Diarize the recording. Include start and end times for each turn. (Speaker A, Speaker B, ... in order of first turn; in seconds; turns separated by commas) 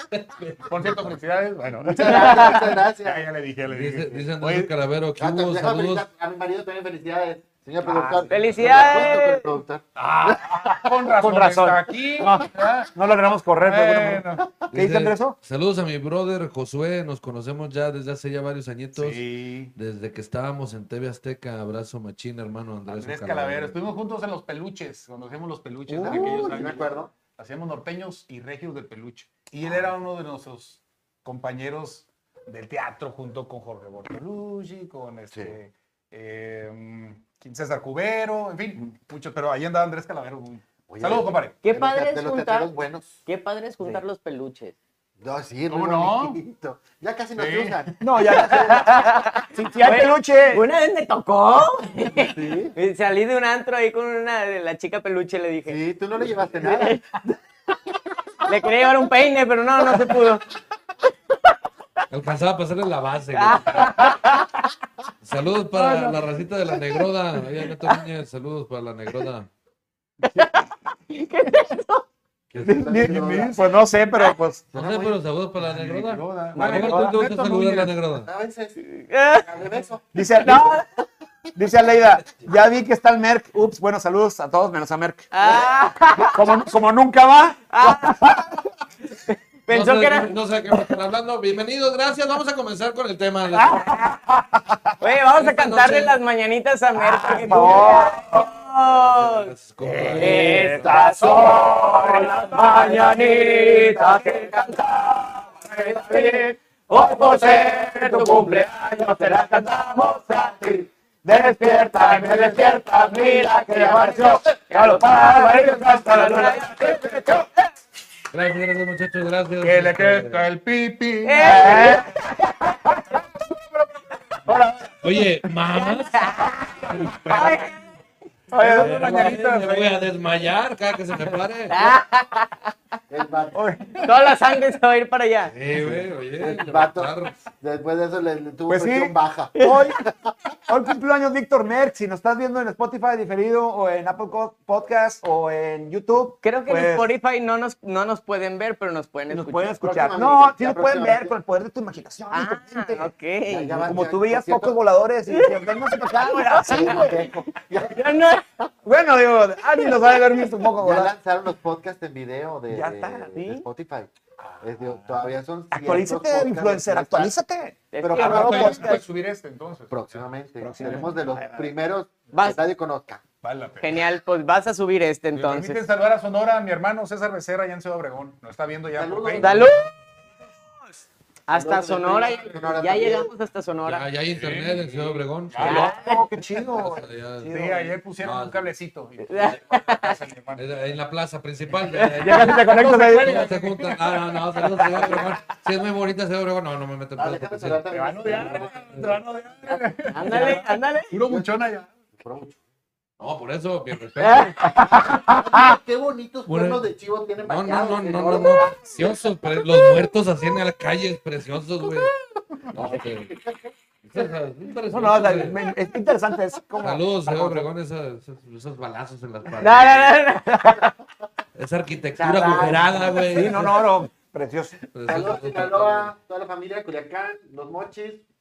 Speaker A: 0.1-0.6, Speaker B: 0.6-4.7, Speaker C: 2.0-3.3, Speaker D: 2.0-2.5, Speaker A: 3.7-6.0, Speaker C: 5.2-10.9, Speaker A: 8.2-8.9, Speaker D: 8.3-9.5, Speaker B: 9.9-12.9, Speaker E: 10.7-15.3, Speaker B: 13.6-14.5, Speaker A: 14.7-23.8, Speaker B: 18.9-19.7, Speaker B: 22.9-41.6, Speaker E: 25.9-26.7, Speaker C: 26.0-27.1, Speaker C: 40.9-43.1, Speaker D: 41.6-42.7, Speaker D: 43.2-44.7, Speaker C: 45.2-48.0, Speaker B: 45.7-46.4, Speaker B: 47.3-48.0, Speaker E: 48.0-50.6, Speaker D: 48.5-55.8, Speaker C: 52.1-52.7, Speaker C: 55.6-57.0, Speaker D: 56.6-57.3, Speaker D: 58.4-60.5, Speaker A: 62.1-64.1, Speaker D: 63.3-64.6, Speaker A: 65.2-69.5, Speaker D: 65.8-66.1, Speaker D: 70.3-72.0, Speaker C: 72.5-73.6, Speaker E: 72.6-74.7, Speaker B: 72.8-73.6, Speaker C: 74.7-75.2, Speaker A: 74.7-78.3, Speaker B: 75.6-78.0, Speaker E: 76.5-77.2, Speaker C: 78.2-78.8, Speaker D: 78.9-79.5, Speaker C: 79.4-80.5, Speaker E: 80.1-80.8, Speaker E: 81.5-85.6, Speaker D: 85.3-86.6, Speaker E: 86.1-88.6, Speaker D: 87.7-88.4, Speaker D: 89.1-90.4, Speaker A: 89.7-93.8, Speaker E: 93.5-94.8, Speaker D: 93.6-94.1, Speaker D: 95.0-99.5, Speaker A: 95.4-96.2, Speaker E: 97.0-98.5, Speaker A: 98.7-100.9, Speaker E: 99.8-117.4, Speaker D: 100.1-104.9, Speaker D: 105.5-110.6, Speaker D: 111.5-117.4, Speaker A: 118.3-120.5, Speaker B: 119.6-122.0, Speaker D: 121.2-122.1, Speaker E: 121.4-123.2, Speaker E: 124.5-124.9, Speaker A: 125.0-127.6, Speaker D: 125.7-127.8, Speaker E: 128.5-129.4, Speaker B: 128.5-130.0, Speaker A: 128.7-131.8, Speaker D: 131.7-132.7, Speaker C: 133.1-133.8, Speaker E: 133.5-134.0, Speaker D: 134.0-135.5, Speaker A: 135.5-137.4, Speaker C: 135.9-140.3, Speaker E: 138.7-140.0, Speaker D: 139.6-139.8, Speaker E: 140.7-147.1, Speaker D: 146.4-149.8, Speaker E: 149.3-153.1, Speaker C: 149.8-151.3, Speaker D: 152.3-153.8, Speaker C: 153.5-154.8, Speaker E: 153.8-157.5, Speaker D: 155.3-157.1, Speaker C: 156.6-158.0, Speaker D: 157.7-158.7, Speaker E: 158.8-161.1, Speaker D: 159.7-160.4, Speaker C: 160.8-167.4, Speaker E: 162.7-163.3, Speaker D: 163.3-163.6, Speaker B: 164.4-165.3, Speaker E: 165.7-169.0, Speaker D: 167.9-168.9, Speaker C: 168.0-169.0, Speaker B: 168.1-170.3, Speaker C: 169.9-173.3, Speaker E: 170.6-171.7, Speaker B: 170.8-171.0, Speaker D: 172.3-172.6, Speaker B: 173.4-174.0, Speaker D: 173.8-175.8, Speaker B: 175.3-179.7, Speaker C: 178.9-179.7, Speaker D: 179.4-179.9, Speaker D: 181.5-184.1, Speaker C: 181.5-183.3, Speaker A: 183.8-185.8, Speaker B: 184.4-185.9, Speaker D: 185.6-186.3, Speaker E: 185.6-187.9, Speaker A: 186.7-187.6, Speaker B: 187.4-190.7, Speaker A: 188.2-188.7, Speaker D: 189.2-190.2, Speaker A: 190.6-199.1, Speaker D: 191.9-192.5, Speaker E: 192.2-193.4, Speaker B: 192.6-194.1, Speaker C: 197.2-199.1, Speaker B: 197.9-201.9, Speaker D: 199.7-201.1, Speaker C: 201.2-201.6, Speaker C: 202.2-202.6, Speaker A: 203.2-204.7, Speaker D: 204.2-204.7, Speaker E: 204.6-205.7, Speaker C: 204.9-208.7, Speaker A: 206.5-206.9, Speaker A: 207.4-212.1, Speaker D: 209.7-210.1, Speaker A: 212.7-213.4, Speaker C: 212.7-213.7, Speaker A: 214.0-215.6, Speaker E: 214.9-217.7, Speaker A: 216.8-220.2, Speaker D: 219.6-220.9, Speaker A: 221.5-223.9, Speaker C: 222.2-223.6, Speaker E: 223.3-224.8, Speaker A: 224.9-226.1, Speaker C: 225.1-228.2